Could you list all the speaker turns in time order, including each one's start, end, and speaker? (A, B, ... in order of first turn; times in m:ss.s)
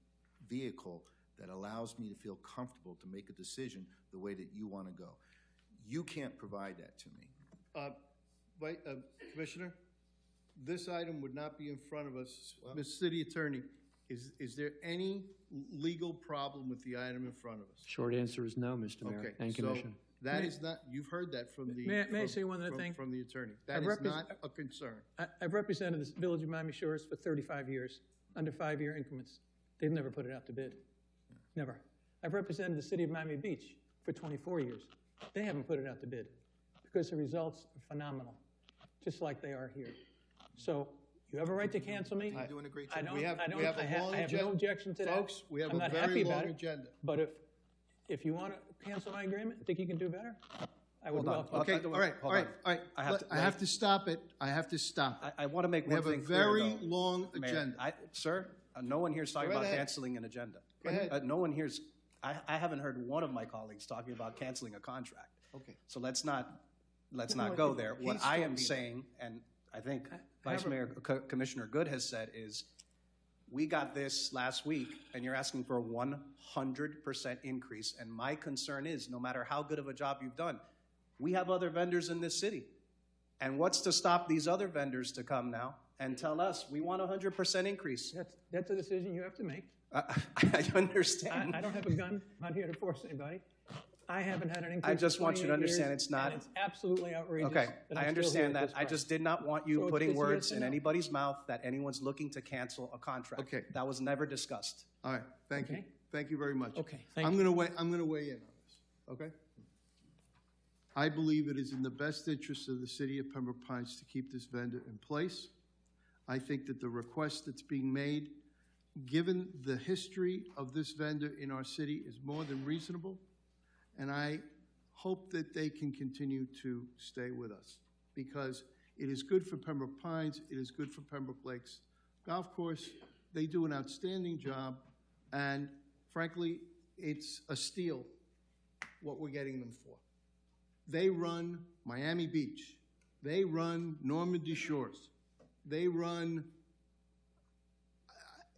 0:00.4-0:05.2 A
0:05.8-0:07.3 A
0:08.6-0:09.8 B
0:10.6-0:17.9 B
0:17.8-0:20.0 C
0:19.0-0:25.1 B
0:21.7-0:23.0 D
0:23.7-0:24.4 D
0:25.2-0:30.8 D
0:31.5-0:38.4 D
0:39.0-0:40.0 D
0:40.6-0:47.4 D
0:41.6-0:43.4 A
0:43.1-0:46.9 B
0:48.1-0:51.7 D
0:51.1-0:53.6 E
0:51.5-0:55.3 B
0:55.2-1:12.7 E
0:55.8-0:57.8 B
0:59.4-0:59.9 B
1:00.8-1:01.2 B
1:05.5-1:05.8 B
1:07.3-1:08.9 B
1:10.3-1:10.6 D
1:13.5-1:20.6 E
1:21.2-1:22.7 E
1:23.4-1:28.2 E
1:28.1-1:29.7 D
1:29.9-1:31.8 E
1:31.3-1:33.5 D
1:34.1-1:40.8 D
1:34.8-1:36.4 E
1:37.4-1:44.9 E
1:43.4-1:43.7 B
1:45.0-1:49.4 B
1:45.6-1:45.9 D
1:46.8-1:47.4 D
1:50.9-1:55.5 B
1:56.3-1:58.4 B
1:59.0-2:03.2 B
2:04.0-2:18.1 B
2:19.0-2:20.0 B
2:20.9-2:25.1 B
2:25.6-2:26.5 B
2:28.1-2:28.4 B